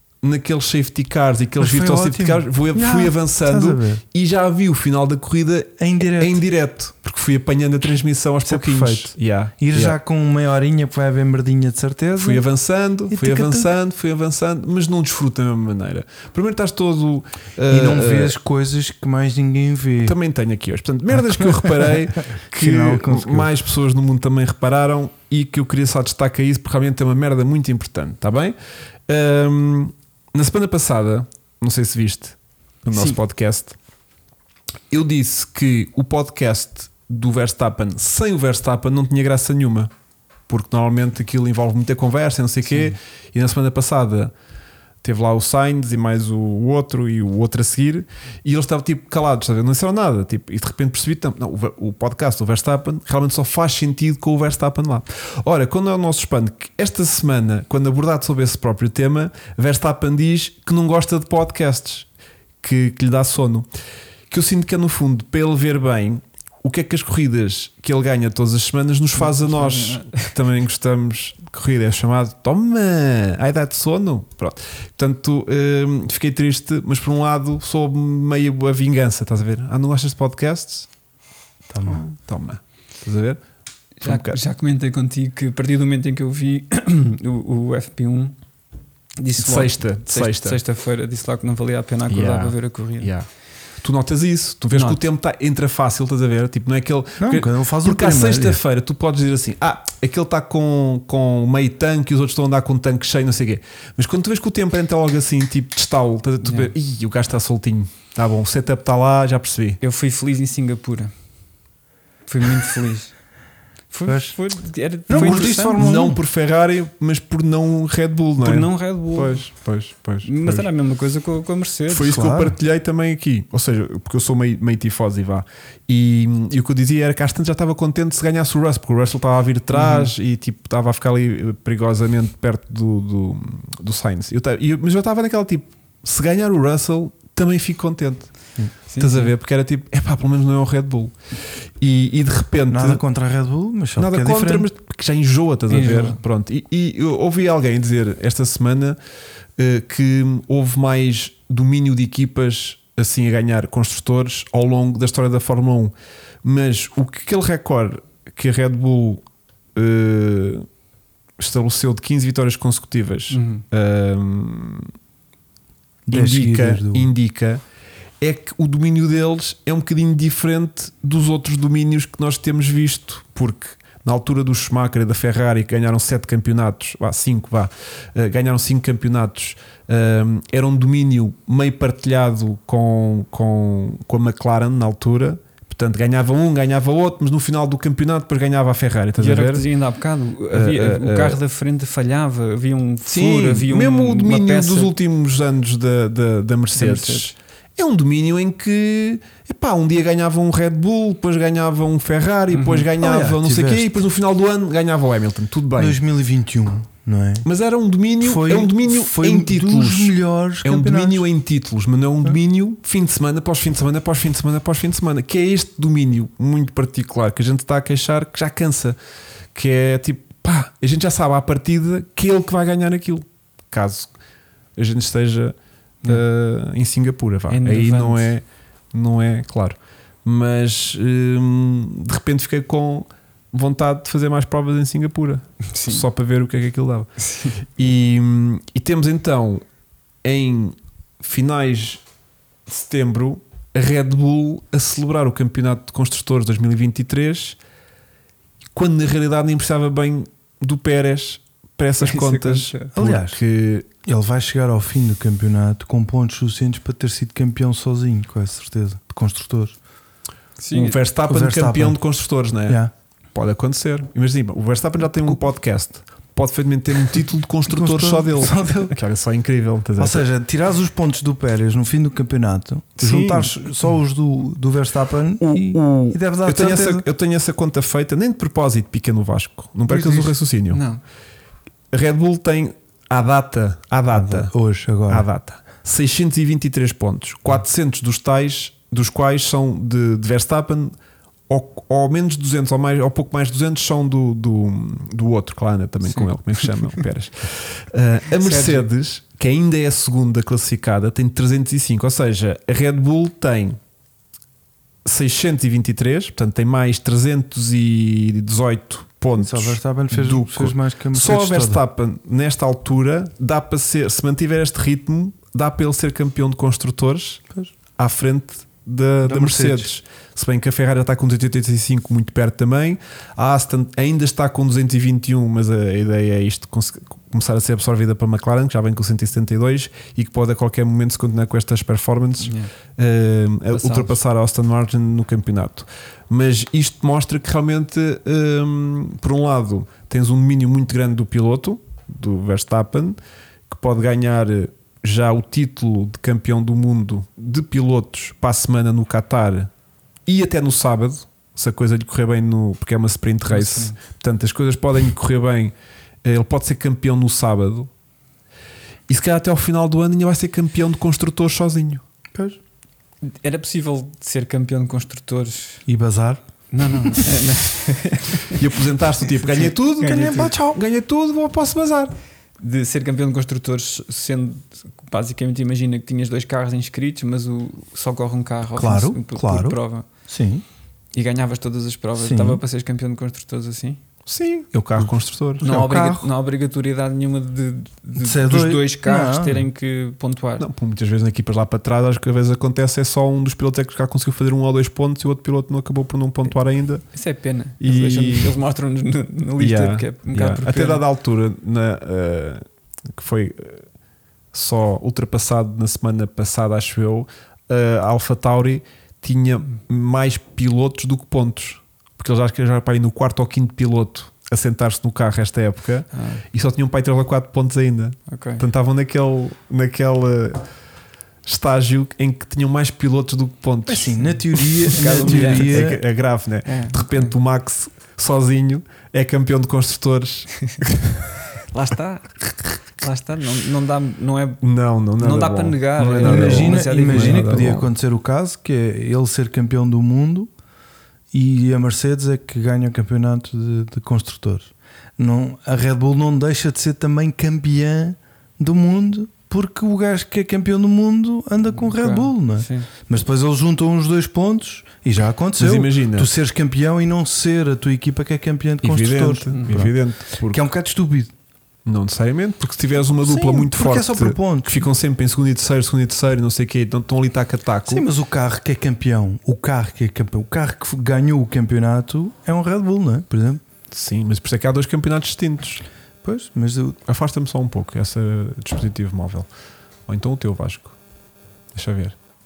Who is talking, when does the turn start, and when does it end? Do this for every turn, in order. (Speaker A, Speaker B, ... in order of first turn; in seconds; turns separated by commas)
Speaker A: 0.2-10.0, Speaker B: 1.6-4.0, Speaker B: 5.8-6.4, Speaker B: 8.4-12.4, Speaker A: 12.2-18.4, Speaker B: 13.1-13.7, Speaker B: 17.7-20.2, Speaker A: 20.0-28.5, Speaker B: 21.1-23.5, Speaker A: 29.1-33.7, Speaker C: 32.9-33.2, Speaker A: 34.9-39.9, Speaker A: 40.5-44.3, Speaker C: 42.7-43.0, Speaker A: 45.0-62.1, Speaker A: 62.6-63.7, Speaker A: 64.3-80.9, Speaker C: 69.2-70.3, Speaker B: 81.7-82.0, Speaker A: 81.8-83.4, Speaker C: 84.0-88.3, Speaker A: 84.0-84.4, Speaker C: 89.2-93.1, Speaker A: 89.4-90.6, Speaker A: 92.1-93.3, Speaker A: 93.8-109.8, Speaker C: 94.7-95.0, Speaker B: 97.2-98.6, Speaker C: 106.4-106.7, Speaker C: 109.8-111.1, Speaker C: 112.3-113.1, Speaker C: 113.9-115.8, Speaker B: 114.0-114.3, Speaker B: 115.1-116.2, Speaker A: 115.1-120.7, Speaker C: 118.4-119.5, Speaker C: 120.2-122.2, Speaker A: 121.9-138.3, Speaker B: 122.0-122.6, Speaker C: 129.7-130.1, Speaker C: 138.9-139.3, Speaker A: 139.0-141.1, Speaker A: 141.8-143.0, Speaker B: 142.7-144.7, Speaker A: 144.0-149.0, Speaker C: 145.7-146.2, Speaker A: 149.6-159.2, Speaker A: 159.7-160.7, Speaker A: 161.4-164.9, Speaker C: 163.3-163.6, Speaker B: 166.1-167.1, Speaker A: 166.1-167.6, Speaker A: 168.2-189.7, Speaker C: 189.2-194.9, Speaker A: 190.5-191.4, Speaker A: 193.1-206.0, Speaker C: 196.8-197.3, Speaker C: 202.5-202.9, Speaker B: 202.9-204.0, Speaker B: 205.8-207.5, Speaker A: 207.4-219.0, Speaker B: 208.2-211.3, Speaker A: 219.5-224.1, Speaker A: 224.8-237.1, Speaker C: 227.5-228.3, Speaker C: 235.6-236.1, Speaker C: 237.2-237.6, Speaker A: 237.8-239.6, Speaker A: 240.2-242.0, Speaker A: 242.7-247.6, Speaker A: 248.7-253.9, Speaker C: 252.0-252.9, Speaker B: 252.9-253.4, Speaker B: 254.0-259.8, Speaker C: 260.6-261.0, Speaker A: 260.7-270.2, Speaker B: 261.2-262.0, Speaker B: 262.6-262.9, Speaker B: 267.7-269.0, Speaker B: 270.0-277.1, Speaker A: 273.0-273.5, Speaker A: 275.4-280.8, Speaker C: 279.9-281.0, Speaker A: 281.9-284.5, Speaker B: 284.1-285.3, Speaker A: 285.1-290.9, Speaker A: 291.5-303.8, Speaker C: 296.0-297.0, Speaker C: 298.4-298.9, Speaker A: 305.0-317.4, Speaker B: 309.4-311.8, Speaker A: 318.0-343.2, Speaker B: 319.2-319.9, Speaker C: 332.4-332.7, Speaker C: 333.7-334.2, Speaker A: 343.7-349.7, Speaker A: 350.2-355.7, Speaker C: 353.5-353.9, Speaker A: 356.2-357.9, Speaker A: 359.1-362.0, Speaker B: 362.3-362.6, Speaker C: 363.2-365.8, Speaker B: 365.9-366.4, Speaker C: 366.7-368.6, Speaker A: 368.5-372.1, Speaker C: 369.6-370.5, Speaker B: 369.9-370.8, Speaker C: 372.6-380.1, Speaker B: 378.8-380.6, Speaker C: 381.1-384.0, Speaker B: 382.2-382.6, Speaker A: 384.2-385.6, Speaker B: 385.6-386.3, Speaker C: 385.6-390.6, Speaker B: 388.2-389.6, Speaker A: 390.6-397.1, Speaker C: 397.1-401.0, Speaker A: 397.8-398.5, Speaker A: 399.6-403.8, Speaker A: 404.5-420.6, Speaker C: 416.1-416.4, Speaker C: 418.3-418.6, Speaker A: 421.4-424.3, Speaker B: 423.9-426.0, Speaker C: 424.9-425.9, Speaker A: 424.9-431.2, Speaker C: 426.6-427.3, Speaker C: 431.7-432.3, Speaker C: 432.9-434.6, Speaker A: 434.6-437.8, Speaker C: 435.2-437.8, Speaker B: 436.2-440.5, Speaker B: 441.3-461.3, Speaker C: 451.8-452.9, Speaker A: 455.6-456.3, Speaker A: 458.8-460.6, Speaker C: 459.5-459.8, Speaker A: 461.8-468.0, Speaker B: 463.2-464.9, Speaker B: 467.9-473.6, Speaker A: 473.9-475.8, Speaker B: 476.2-477.0, Speaker A: 477.1-479.5, Speaker A: 480.1-480.9, Speaker A: 481.7-482.1